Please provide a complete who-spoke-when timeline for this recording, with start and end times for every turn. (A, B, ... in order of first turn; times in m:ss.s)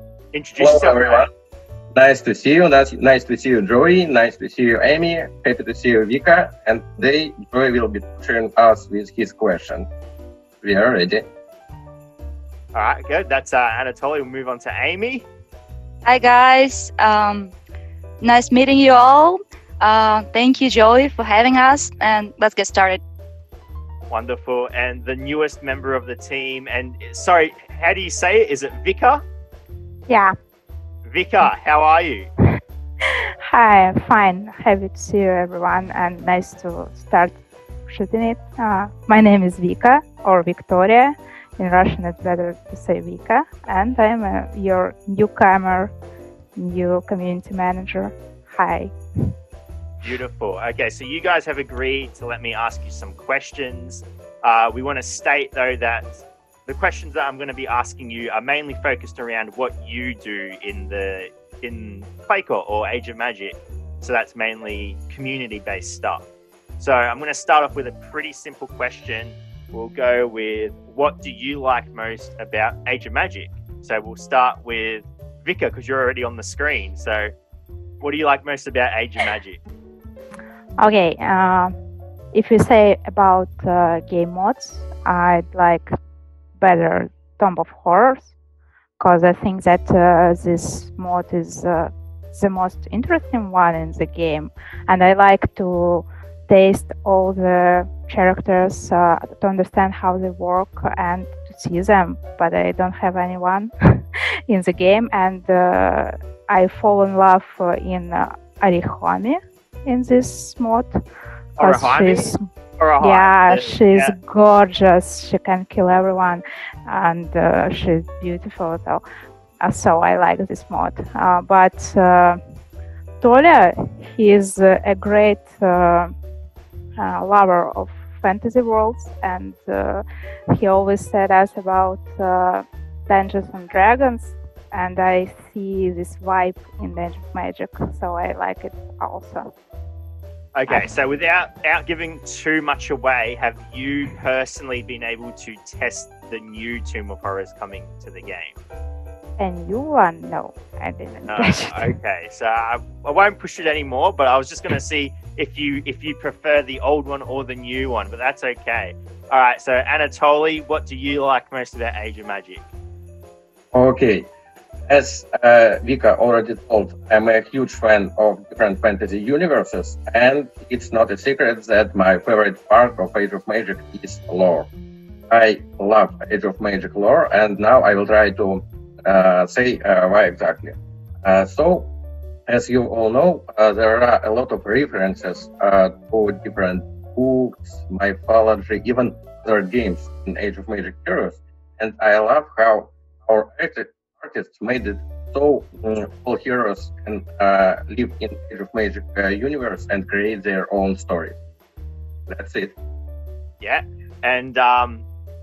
0:00.3-0:01.2 A
0:00.6-0:01.3 B
0:01.9-0:09.9 B
0:10.6-0:11.3 B
0:12.7-0:15.3 A
0:16.0-0:17.5 C
0:18.2-0:23.0 C
0:24.1-0:29.2 A
0:30.1-0:30.3 D
0:31.0-0:32.3 A
0:33.4-0:45.9 D
0:46.5-0:48.9 D
0:50.0-1:06.3 A
1:06.8-1:17.3 A
1:18.0-1:19.6 A
1:20.8-1:21.7 D
1:22.3-1:25.9 D
1:26.6-1:28.3 D
1:29.0-1:43.7 D
1:44.5-1:50.9 D
1:51.6-1:54.2 A
1:51.6-1:52.4 D
1:53.0-1:59.0 D
1:59.6-2:02.4 D
2:03.2-2:06.1 D
2:07.0-2:19.5 D
2:20.5-2:28.6 A
2:29.4-2:31.9 D
2:31.3-2:42.6 A
2:43.7-2:44.3 B
2:44.9-2:54.7 B
2:55.3-3:01.9 B
3:02.5-3:21.4 B
3:22.3-3:22.7 B
3:23.6-3:25.0 A